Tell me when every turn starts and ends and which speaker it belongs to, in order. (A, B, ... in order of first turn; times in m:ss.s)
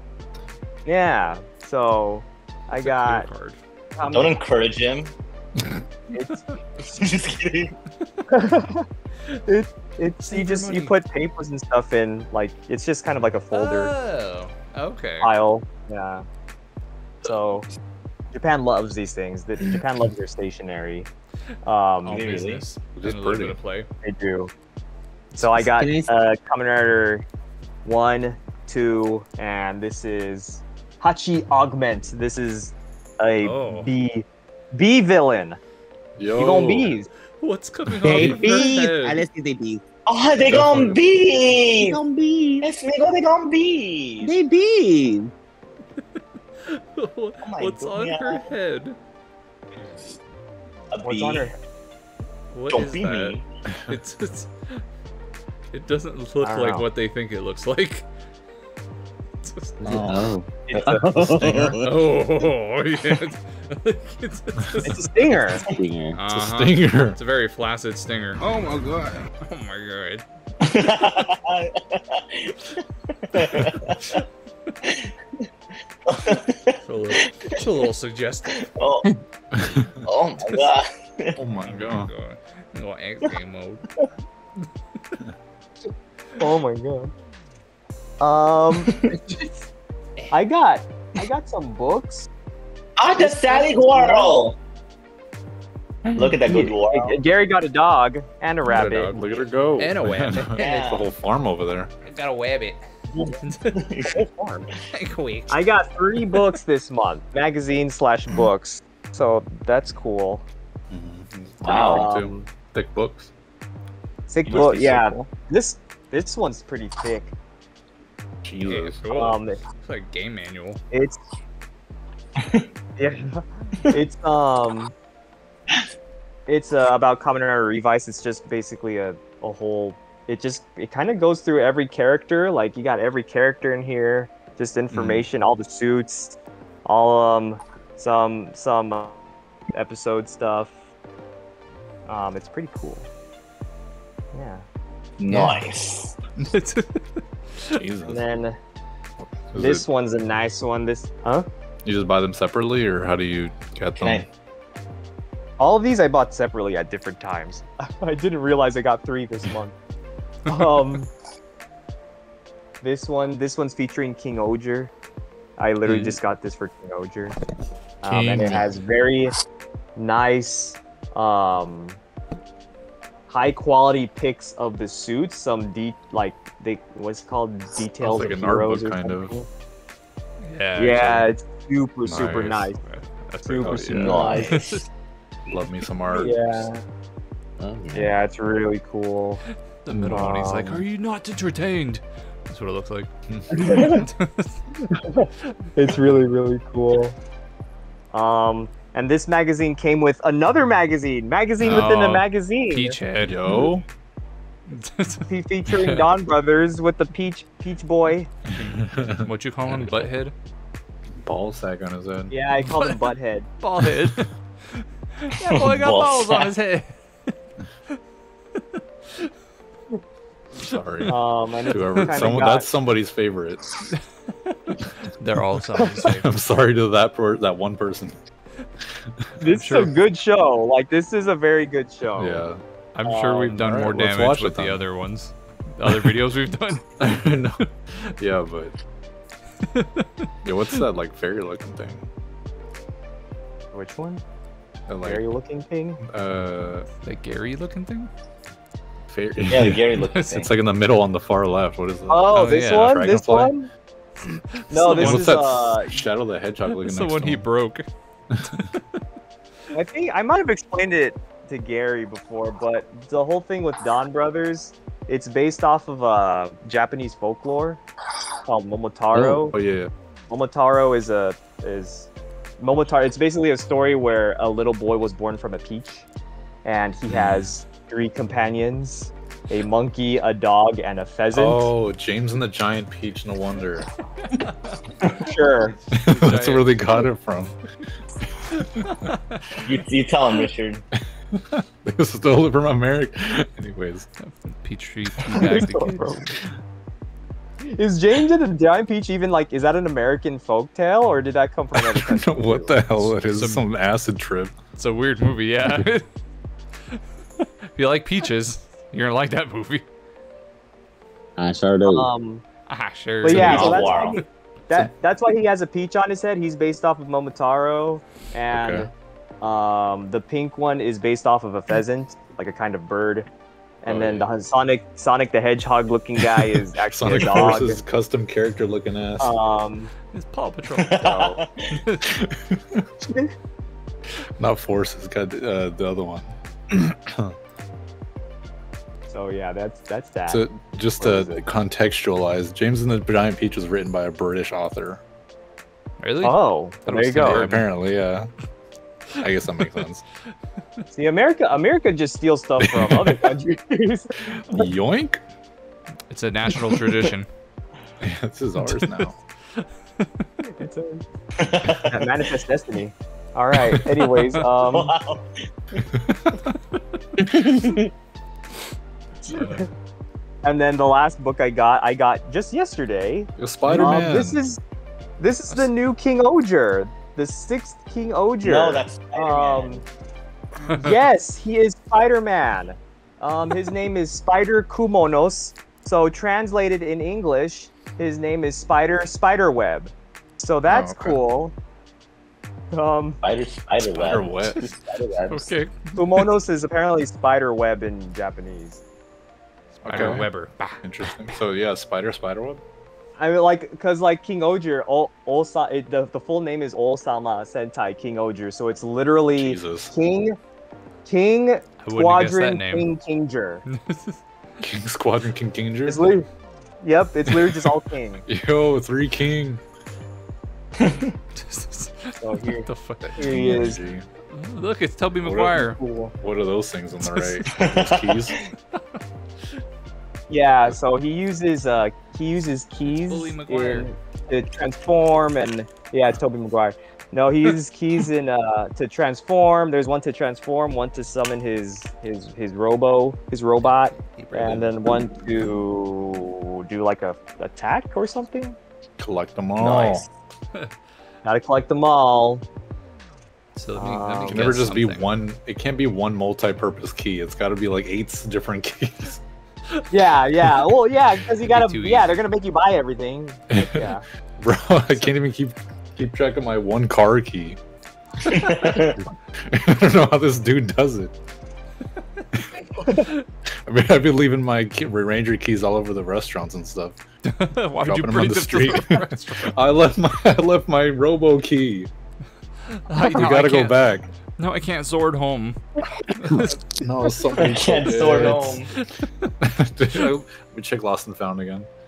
0:00.8-0:03.3 A
0:02.8-0:03.6 B
0:04.0-0:04.4 A
0:04.1-0:05.1 C
0:06.1-0:06.6 B
0:06.1-0:06.4 A
0:06.9-0:07.7 C
0:08.3-0:08.8 A
0:09.4-0:13.9 A
0:10.2-0:11.0 B
0:13.5-0:15.3 B
0:15.2-0:16.2 A
0:17.2-0:17.7 A
0:18.3-0:21.1 A
0:21.6-0:22.2 A
0:22.0-0:23.9 B
0:22.1-0:22.6 C
0:22.9-0:23.6 D
0:24.0-0:24.5 A
0:25.4-0:27.2 A
0:25.4-0:26.1 E
0:27.8-0:35.6 A
0:33.4-0:33.9 B
0:36.2-0:37.0 D
0:36.3-0:37.1 A
0:37.4-0:39.2 B
0:38.0-0:38.4 D
0:38.0-0:39.8 E
0:40.0-0:42.0 C
0:40.4-0:41.0 D
0:41.7-0:42.7 E
0:42.6-0:44.3 C
0:44.2-0:45.3 E
0:46.6-0:49.0 B
0:47.4-0:48.5 C
0:50.9-0:51.5 C
0:51.0-0:51.6 A
0:52.5-0:53.4 B
0:52.7-0:53.5 C
0:53.7-0:54.0 D
0:53.9-0:54.8 B
0:55.7-0:58.1 B
0:56.4-0:56.8 A
0:59.4-1:00.1 B
0:59.8-1:02.0 E
0:59.8-1:00.2 D
1:00.7-1:01.8 A
1:01.8-1:05.1 B
1:04.8-1:05.6 A
1:05.6-1:06.2 E
1:06.1-1:08.8 B
1:06.3-1:07.2 D
1:09.3-1:10.2 B
1:10.6-1:14.2 C
1:13.4-1:13.9 D
1:14.8-1:15.1 C
1:16.0-1:17.7 C
1:16.8-1:18.6 B
1:18.6-1:19.1 C
1:19.5-1:20.0 D
1:20.0-1:21.4 C
1:21.4-1:22.1 D
1:21.6-1:23.8 B
1:26.4-1:27.1 A
1:28.2-1:29.0 A
1:28.8-1:29.2 C
1:30.3-1:32.3 A
1:33.0-1:34.6 C
1:33.2-1:34.5 A
1:36.1-1:39.4 A
1:36.1-1:37.2 C
1:38.6-1:41.9 D
1:38.7-1:40.8 B
1:40.6-1:41.1 C
1:42.0-1:42.8 B
1:43.1-1:43.4 A
1:43.2-1:44.2 C
1:43.4-1:43.8 B
1:44.0-1:44.7 A
1:44.9-1:45.6 B
1:45.5-1:50.4 A
1:50.9-1:53.3 D
1:51.6-1:52.1 C
1:51.7-1:52.5 A
1:54.3-1:57.3 A
1:54.5-1:55.3 C
1:58.4-1:59.3 D
1:58.6-2:00.8 B
1:59.1-1:59.6 A
2:00.9-2:01.2 A
2:02.4-2:02.7 C
2:03.0-2:04.9 A
2:06.5-2:19.2 A
2:14.9-2:15.2 D
2:19.7-2:20.7 A
2:22.1-2:23.1 A
2:24.3-2:24.6 A
2:25.2-2:26.2 C
2:25.3-2:25.6 D
2:26.4-2:27.8 B
2:27.7-2:28.2 D
2:28.1-2:28.6 A
2:29.2-2:29.8 D
2:29.6-2:31.5 A
2:31.8-2:34.3 D
2:34.0-2:34.2 C
2:35.6-2:39.7 A
2:40.4-2:41.1 A
2:42.8-2:44.9 A
2:45.6-2:47.3 A
2:45.9-2:46.1 D
2:48.0-2:49.3 A
2:48.0-2:48.7 D
2:50.0-2:52.0 A
2:53.3-2:59.5 A
2:58.0-2:59.4 D
3:00.4-3:01.3 B
3:00.8-3:02.8 A
3:02.1-3:02.7 D
3:02.7-3:04.8 B
3:03.4-3:04.5 A
3:03.6-3:04.3 D
3:04.0-3:04.8 C
3:05.5-3:06.7 D
3:06.2-3:06.8 A
3:07.6-3:08.2 E
3:07.9-3:09.4 A
3:09.8-3:13.1 B
3:09.9-3:10.6 D
3:10.1-3:10.8 A
3:13.3-3:14.0 D
3:13.5-3:14.0 A
3:13.6-3:14.6 B
3:14.9-3:17.2 A
3:18.1-3:23.0 A
3:21.6-3:23.7 B
3:23.2-3:23.8 D
3:24.7-3:26.0 B
3:25.3-3:28.3 A
3:28.5-3:30.1 D
3:28.6-3:30.3 B
3:31.2-3:32.3 D
3:32.3-3:33.5 A
3:33.6-3:37.3 B
3:35.5-3:36.5 C
3:38.6-3:39.3 B
3:40.6-3:41.2 D
3:40.6-3:41.1 B
3:41.1-3:42.7 A
3:41.7-3:43.8 D
3:41.7-3:42.2 B
3:43.9-3:46.3 B
3:45.9-3:48.2 D
3:48.9-3:49.3 D
3:49.4-3:52.4 A
3:49.4-3:49.9 B
3:52.2-3:52.6 D
3:52.9-3:57.1 B
3:53.0-3:53.6 A
3:53.5-3:54.8 D
3:55.8-3:56.1 D
3:57.0-3:58.7 D
3:59.7-4:00.8 B
4:00.4-4:02.1 D
4:03.7-4:04.2 A
4:04.9-4:05.2 D
4:05.0-4:06.0 A
4:06.0-4:06.9 D
4:07.0-4:08.1 B
4:09.1-4:13.5 D
4:09.5-4:10.5 C
4:10.0-4:10.3 B
4:12.1-4:13.7 A
4:12.3-4:12.9 B
4:14.2-4:15.7 B
4:14.7-4:16.0 A
4:14.8-4:17.4 D
4:16.7-4:17.8 B
4:18.3-4:18.6 D
4:18.5-4:19.0 B
4:19.7-4:27.8 A
4:28.4-4:29.5 A
4:29.1-4:29.9 D
4:30.3-4:32.1 A
4:32.6-4:36.0 A
4:36.6-4:41.7 A
4:37.1-4:37.5 D
4:41.3-4:43.9 D
4:44.3-4:47.1 B
4:45.2-4:45.7 A
4:45.9-4:47.6 D
4:48.5-4:49.1 D
4:48.8-4:49.4 B
4:49.6-4:50.8 C
4:51.3-4:54.1 D
4:54.2-4:56.2 B
4:55.4-4:56.2 A
4:57.7-5:03.0 A
5:01.7-5:04.6 D
5:03.3-5:03.6 B
5:04.8-5:06.0 B
5:06.9-5:09.8 B
5:11.4-5:12.1 E
5:11.9-5:12.4 A
5:12.7-5:14.2 B
5:13.2-5:18.9 A
5:13.3-5:14.2 C
5:13.3-5:13.8 D
5:18.5-5:18.9 D
5:19.4-5:23.3 A
5:23.8-5:27.8 A
5:23.8-5:24.3 D
5:26.2-5:29.3 D
5:29.2-5:29.9 A
5:30.1-5:31.1 B
5:30.7-5:31.8 C
5:31.0-5:31.4 A
5:31.7-5:32.0 B
5:32.0-5:32.9 D
5:33.0-5:33.3 A
5:34.4-5:37.3 D
5:39.1-5:40.5 A
5:40.3-5:45.0 D
5:41.0-5:41.4 A
5:46.0-5:46.4 B
5:46.2-5:47.4 A
5:46.8-5:48.3 D
5:47.2-5:47.6 B
5:49.2-5:50.0 D
5:49.6-5:49.8 B
5:50.9-5:54.7 A
5:52.6-5:53.3 D
5:54.3-5:55.2 D
5:56.1-5:57.3 B
5:56.5-5:56.9 D
5:58.0-5:59.2 D
5:58.6-6:00.2 B
6:00.5-6:01.0 A
6:01.4-6:02.1 C
6:01.8-6:04.9 A
6:04.6-6:05.8 C
6:05.8-6:06.4 D
6:07.2-6:07.8 C
6:09.2-6:09.7 A
6:09.2-6:09.7 B
6:10.4-6:14.6 A
6:13.4-6:14.4 D
6:13.7-6:14.0 B
6:15.2-6:19.8 A
6:18.4-6:19.8 C
6:20.6-6:21.0 B
6:20.7-6:31.5 A
6:30.7-6:31.2 D
6:32.7-6:33.2 A
6:33.2-6:35.5 C
6:33.8-6:34.7 D
6:35.3-6:36.3 B
6:35.9-6:38.8 A
6:39.8-6:40.3 D
6:39.8-6:41.4 B
6:40.8-6:42.6 D
6:43.2-6:50.4 A
6:49.3-6:49.9 D
6:51.0-6:53.6 A
6:51.8-6:52.9 B
6:53.7-6:54.2 B
6:54.6-6:56.1 D
6:55.8-6:56.3 A
6:56.8-6:58.2 A
6:57.3-6:57.5 D
6:58.2-6:59.6 D
7:00.8-7:01.1 C
7:01.3-7:03.6 B
7:02.2-7:03.8 A
7:03.0-7:04.1 D
7:04.3-7:05.8 B
7:05.2-7:05.6 D
7:05.6-7:06.1 A
7:06.2-7:08.4 D
7:07.0-7:07.4 B
7:07.5-7:08.4 C
7:10.3-7:28.6 A
7:12.8-7:13.9 B
7:23.6-7:24.7 B
7:29.0-7:30.1 D
7:29.6-7:30.0 C
7:31.2-7:32.4 A
7:33.6-7:35.1 B
7:33.8-7:34.6 A
7:34.3-7:39.2 D
7:39.9-7:44.0 A
7:41.4-7:42.2 B
7:43.5-7:47.6 D
7:48.2-7:49.0 C
7:49.4-7:51.1 D
7:53.6-7:57.0 D
7:57.2-7:59.8 B
7:57.8-8:01.9 D
8:02.7-8:03.8 B
8:03.0-8:04.1 D
8:04.4-8:05.6 B
8:06.1-8:06.6 B
8:06.6-8:08.6 D
8:07.4-8:08.7 C
8:08.8-8:09.3 B
8:09.4-8:11.7 D